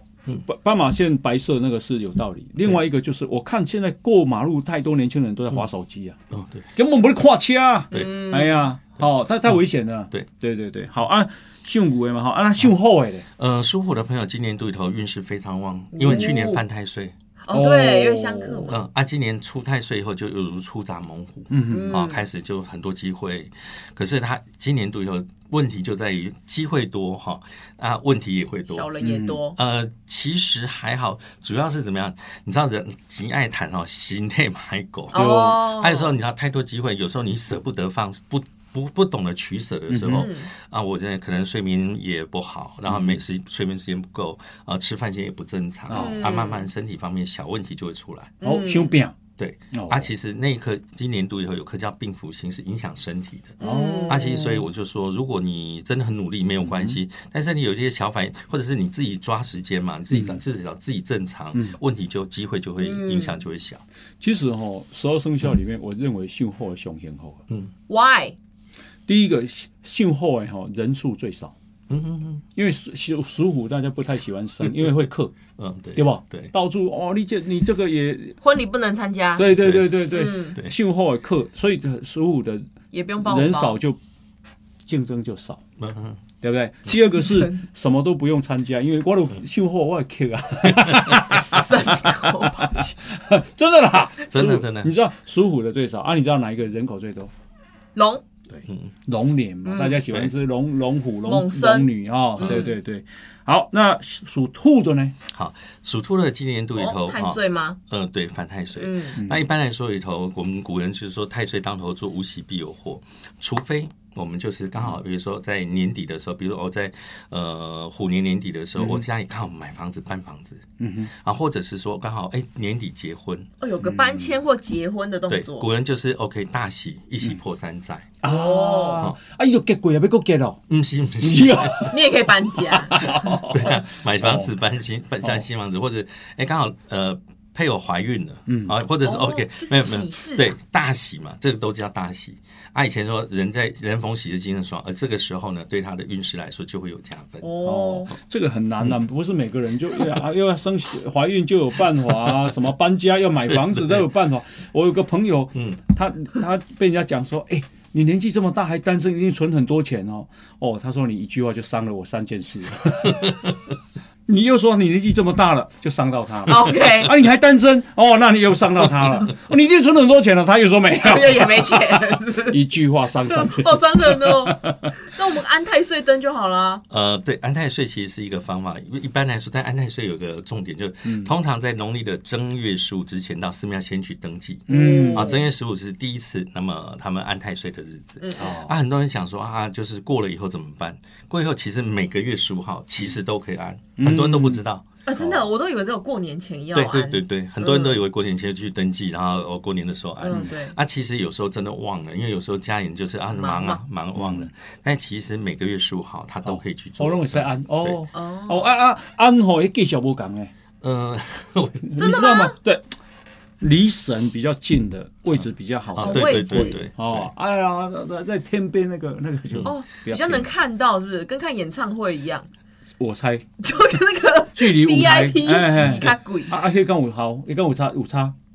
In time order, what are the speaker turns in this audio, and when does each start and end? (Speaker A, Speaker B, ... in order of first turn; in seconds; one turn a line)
Speaker A: 0.4-6.2
Speaker B: 6.3-6.7
Speaker A: 6.8-13.3
Speaker C: 7.9-8.7
Speaker B: 9.0-9.6
Speaker B: 13.4-17.1
Speaker C: 15.9-16.6
Speaker C: 17.4-18.8
Speaker A: 17.5-18.8
Speaker B: 18.7-28.9
Speaker A: 21.5-22.0
Speaker C: 21.7-22.2
Speaker C: 28.7-29.6
Speaker A: 29.0-29.4
Speaker B: 29.6-48.4
Speaker C: 35.1-36.1
Speaker A: 35.1-35.6
Speaker A: 39.9-40.3
Speaker C: 40.1-40.5
Speaker A: 42.9-43.2
Speaker A: 45.9-46.3
Speaker C: 45.9-46.7
Speaker C: 48.4-48.9
Speaker A: 48.4-49.2
Speaker B: 49.4-53.6
Speaker A: 49.7-50.1
Speaker C: 53.6-54.5
Speaker A: 53.6-54.6
Speaker B: 54.1-63.8
Speaker A: 56.6-57.0
Speaker A: 60.1-60.4
Speaker C: 62.8-63.4
Speaker A: 64.2-67.4
Speaker C: 67.9-68.4
Speaker A: 69.1-71.5
Speaker B: 71.9-72.4
Speaker A: 72.5-75.3
Speaker B: 75.6-76.5
Speaker A: 76.0-78.4
Speaker C: 78.4-79.5
Speaker A: 79.4-82.7
Speaker B: 79.5-79.9
Speaker C: 80.1-80.6
Speaker C: 82.9-83.8
Speaker A: 83.2-84.0
Speaker A: 84.9-85.6
Speaker B: 85.8-86.2
Speaker A: 86.4-97.3
Speaker C: 87.2-87.6
Speaker B: 90.8-91.2
Speaker C: 91.4-93.0
Speaker B: 94.3-94.9
Speaker C: 98.0-98.2
Speaker A: 98.5-105.2
Speaker C: 99.6-100.0
Speaker C: 101.2-102.8
Speaker B: 102.4-102.7
Speaker B: 105.3-123.5
Speaker C: 106.8-107.8
Speaker C: 108.8-109.2
Speaker A: 109.2-109.4
Speaker A: 118.8-119.0
Speaker A: 120.8-121.1
Speaker C: 123.6-125.7
Speaker A: 123.8-124.4
Speaker B: 125.3-128.2
Speaker A: 128.2-130.6
Speaker C: 128.2-129.1
Speaker B: 130.7-131.9
Speaker A: 131.2-134.5
Speaker C: 131.8-133.1
Speaker B: 133.3-147.5
Speaker A: 138.5-138.8
Speaker C: 139.0-140.6
Speaker C: 147.4-148.1
Speaker A: 147.6-163.3
Speaker B: 153.4-154.1
Speaker B: 163.0-163.6
Speaker A: 164.3-174.9
Speaker C: 166.5-167.1
Speaker C: 171.0-172.6
Speaker C: 173.2-176.8
Speaker B: 176.9-195.3
Speaker A: 181.1-181.3
Speaker A: 184.7-185.3
Speaker C: 184.7-185.5
Speaker C: 188.2-188.5
Speaker A: 188.4-188.8
Speaker A: 194.0-194.6
Speaker C: 195.1-198.0
Speaker B: 196.7-208.0
Speaker C: 200.2-200.8
Speaker C: 203.3-203.8
Speaker A: 204.2-204.5
Speaker A: 206.4-210.5
Speaker C: 208.1-208.7
Speaker B: 210.8-212.0
Speaker A: 211.8-212.9
Speaker C: 212.0-212.6
Speaker A: 213.6-220.5
Speaker B: 215.9-217.3
Speaker C: 216.0-216.8
Speaker C: 219.7-222.5
Speaker A: 223.0-223.5
Speaker C: 223.6-226.6
Speaker A: 224.6-228.3